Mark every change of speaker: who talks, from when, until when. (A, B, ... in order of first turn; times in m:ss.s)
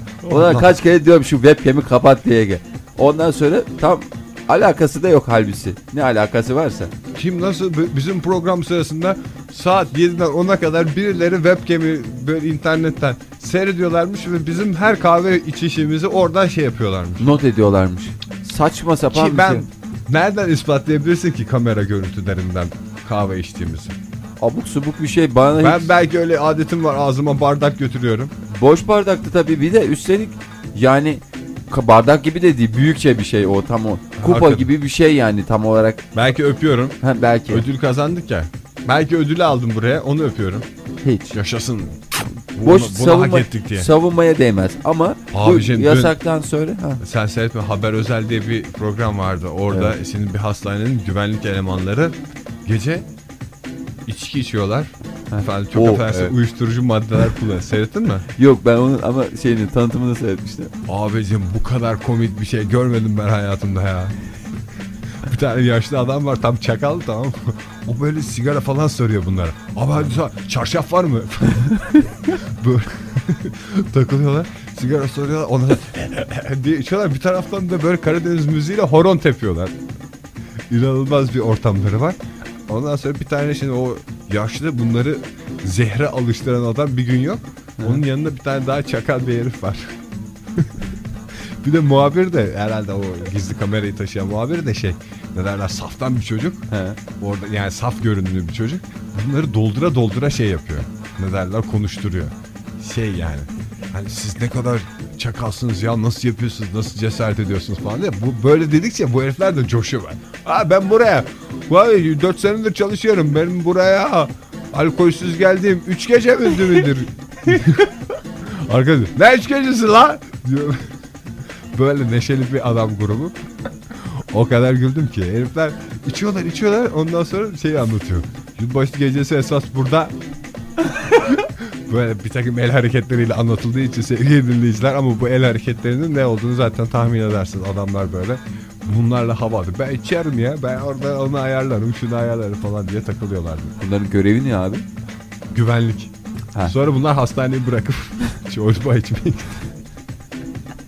0:00.2-0:00.7 A
0:00.3-0:06.9 B
0:07.2-0:17.3 A
0:17.2-0:19.7 B
0:19.1-0:24.0 A
0:24.4-0:25.9 B
0:25.6-0:28.3 A
0:28.5-0:36.1 B
0:34.2-0:34.7 A
0:36.1-0:37.0 A
0:37.0-0:37.7 B
0:37.5-0:40.7 A
0:41.0-0:41.4 B
0:41.3-0:43.9 A
0:42.6-0:47.0 B
0:45.3-0:46.2 A
0:47.0-0:53.1 A
0:54.1-0:58.3 A
0:55.3-0:56.3 B
0:58.4-1:00.7 B
1:00.9-1:04.2 A
1:05.2-1:19.8 A
1:20.7-1:30.0 A
1:31.6-1:36.6 A
1:36.7-1:37.0 B
1:37.2-1:57.9 A
1:58.4-2:00.9 A
2:01.7-2:03.4 A
2:03.9-2:10.2 A
2:11.2-2:23.7 A
2:23.8-2:24.9 B
2:25.5-2:26.1 A
2:26.6-2:29.6 A